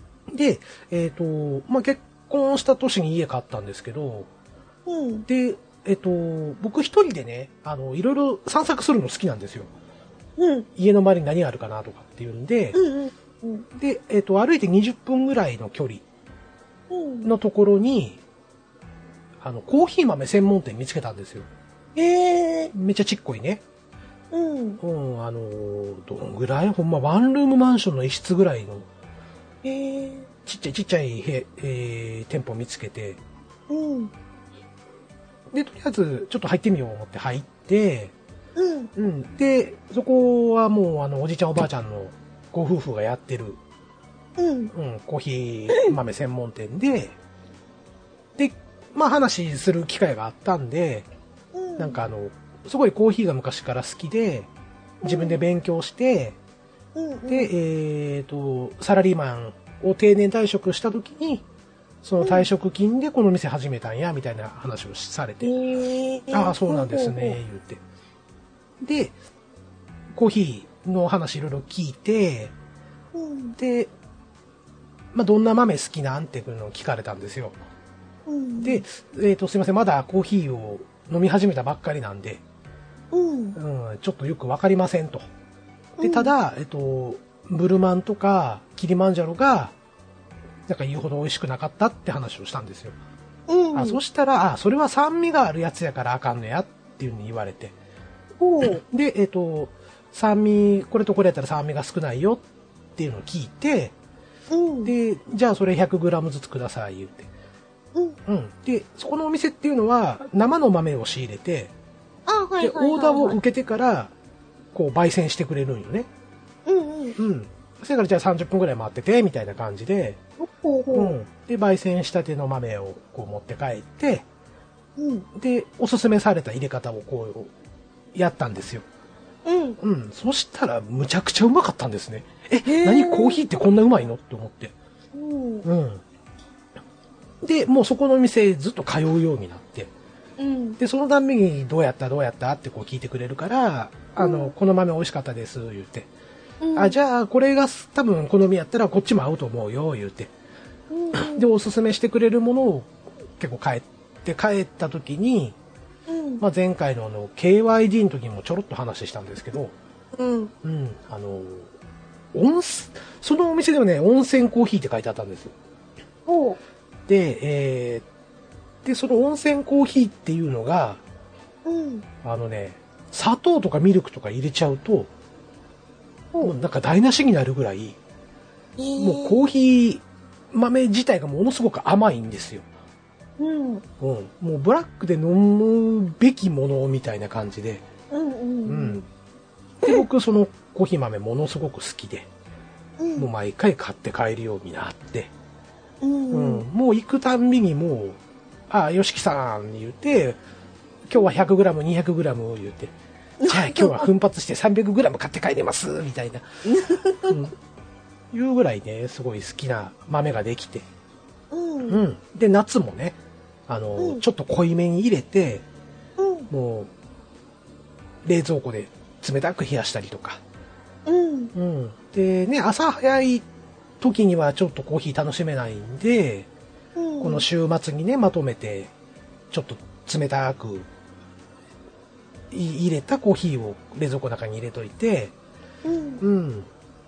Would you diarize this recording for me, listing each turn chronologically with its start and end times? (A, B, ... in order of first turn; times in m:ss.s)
0:00.3-0:04.3 A
0:04.9-0:05.3 B
0:05.3-0:09.7 A
0:10.4-0:10.7 B
0:10.8-0:12.8 A
0:12.7-0:13.7 B
0:13.8-0:16.0 A
0:16.9-0:17.3 B
0:17.2-0:18.2 A
0:19.4-0:21.5 A
0:22.0-0:22.7 B
0:22.7-0:23.6 A
0:24.3-0:24.8 B
0:24.8-0:28.9 A
0:29.6-0:30.3 B
0:30.4-0:33.2 A
0:33.7-0:34.1 B
0:35.5-0:38.1 A
0:38.6-0:38.9 B
0:39.0-0:43.6 A
0:44.4-0:44.7 B
0:44.7-0:47.2 A
0:48.4-0:51.1 A
0:51.5-0:52.0 B
0:51.8-0:54.5 A
0:55.0-0:55.4 B
0:55.0-0:56.4 A
0:57.0-0:57.5 B
0:57.3-1:01.4 A
1:02.0-1:05.5 A
1:02.2-1:02.5 B
1:05.4-1:07.4 B
1:06.3-1:07.8 A
1:08.8-1:09.2 A
1:10.1-1:12.5 A
1:13.1-1:13.6 B
1:13.6-1:13.9 A
1:15.1-1:17.6 A
1:18.3-1:18.8 B
1:18.6-1:22.4 A
1:23.1-1:23.6 B
1:23.6-1:25.2 A
1:26.0-1:29.7 A
1:26.0-1:26.3 B
1:30.7-1:33.0 A
1:33.5-1:34.0 B
1:33.7-1:37.7 A
1:38.4-1:38.8 B
1:38.6-1:42.4 A
1:43.0-1:44.0 A
1:44.5-1:44.9 B
1:44.8-1:47.3 A
1:48.3-1:51.7 A
1:52.3-1:53.4 B
1:52.6-1:54.1 A
1:54.7-1:56.1 A
1:56.7-1:57.2 B
1:57.2-2:00.2 A
2:00.4-2:01.1 B
2:00.9-2:04.3 A
2:05.0-2:05.3 B
2:05.4-2:07.5 A
2:08.1-2:08.8 A
2:09.4-2:09.8 B
2:09.8-2:14.7 A
2:12.6-2:13.4 B
2:15.1-2:15.7 B
2:15.6-2:16.0 A
2:17.4-2:19.9 A
2:20.4-2:20.8 B
2:20.8-2:26.1 A
2:24.2-2:24.5 B
2:26.6-2:27.0 B
2:26.7-2:30.3 A
2:30.9-2:31.5 B
2:31.1-2:35.6 A
2:36.1-2:36.4 B
2:36.4-2:39.7 A
2:40.1-2:40.5 B
2:40.6-2:41.7 A
2:42.3-2:45.5 A
2:46.3-2:46.6 B
2:47.1-2:48.1 A
2:48.8-2:51.0 A
2:51.7-2:52.1 B
2:52.2-2:55.1 A
2:56.4-2:58.0 A
2:58.8-2:59.4 B
2:59.0-3:02.7 A
3:03.4-3:03.8 B
3:04.0-3:07.8 A
3:08.1-3:09.1 B
3:08.7-3:09.0 A
3:09.8-3:12.3 A
3:13.0-3:13.3 B
3:13.2-3:15.3 A
3:16.0-3:16.6 B
3:16.3-3:20.4 A
3:21.1-3:22.9 A
3:23.4-3:24.1 B
3:23.5-3:26.4 A
3:26.6-3:27.4 B
3:27.3-3:27.5 A
3:28.3-3:30.9 A
3:31.5-3:32.0 B
3:31.9-3:33.2 A
3:33.7-3:35.6 A
3:34.0-3:34.2 B
3:36.2-3:36.5 B
3:36.5-3:36.9 A
3:38.2-3:40.4 A
3:41.1-3:41.5 B
3:41.6-3:43.4 A
3:44.0-3:46.5 A
3:47.0-3:47.4 B
3:47.2-3:48.9 A
3:49.5-3:50.9 A
3:52.5-3:55.3 A
3:55.8-3:56.2 B
3:56.2-3:56.7 A